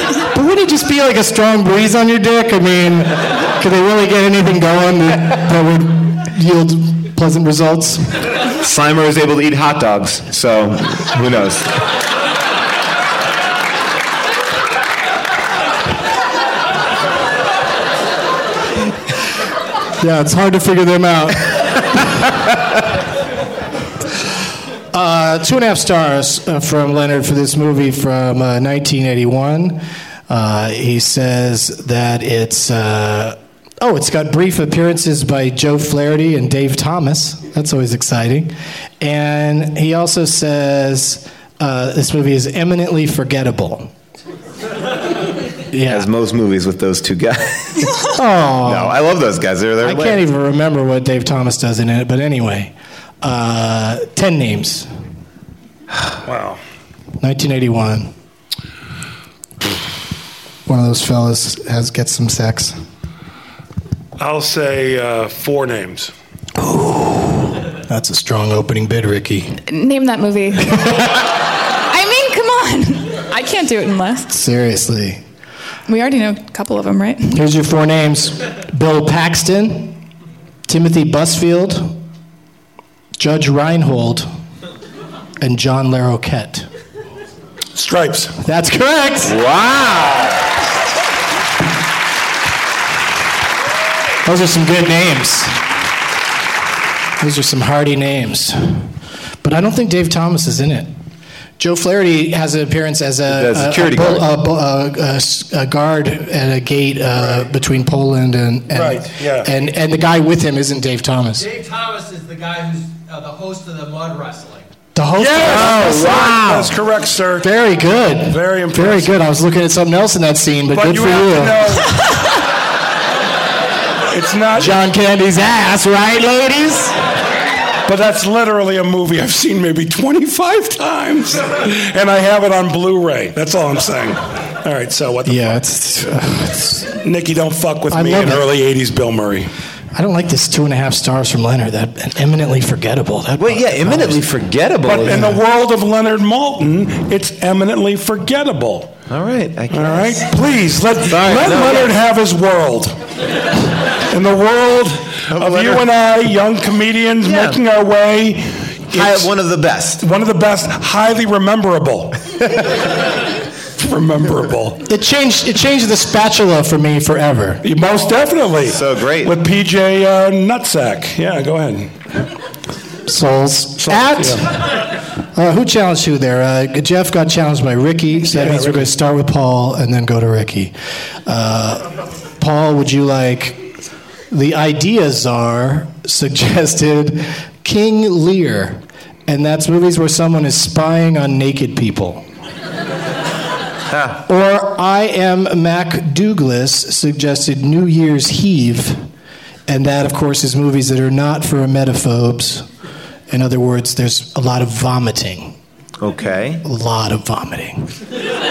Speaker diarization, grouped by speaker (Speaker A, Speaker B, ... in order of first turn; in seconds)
Speaker A: 0.3-8.1, 20.0-22.0, 24.9-43.9, 45.7-46.1, 48.1-49.0, 49.8-54.9, 57.2-58.1, 60.7-62.8, 66.6-69.6, 74.3-75.2, 77.3-80.0, 80.7-82.0, 83.2-84.3, 85.4-86.7, 88.4-89.3, 94.2-95.6, 97.2-98.9, 99.4-100.9, 101.6-111.5, 114.9-116.8, 117.4-121.6, 124.5-126.9, 135.2-136.9, 137.9-138.4, 139.9-144.3, 145.0-145.4, 164.9-167.6, 173.1-174.6, 175.3-180.7, 181.2-183.7, 184.3-192.2, 194.2-199.0, 199.7-202.7, 203.3-205.6, 206.6-207.9
Speaker B: 8.6-11.7, 45.9-47.9, 48.6-50.2, 89.2-90.4, 103.3-104.3, 143.4-145.4, 149.1-150.3, 151.0-151.9, 155.3-155.8, 157.2-157.6, 158.9-160.0, 168.6-169.4, 206.0-206.6
Speaker C: 56.2-56.6, 64.2-66.1, 87.7-88.3, 108.7-109.5, 115.2-117.5, 118.3-119.1, 120.7-121.9, 124.1-124.8, 127.8-135.6, 137.0-139.5, 144.8-148.9, 149.7-153.0, 154.1-159.3, 160.0-162.2, 163.8-164.8, 167.6-171.9, 173.8-174.4, 178.2-178.9
Speaker D: 69.7-71.1, 71.9-74.4, 75.9-77.4
Speaker E: 111.5-114.6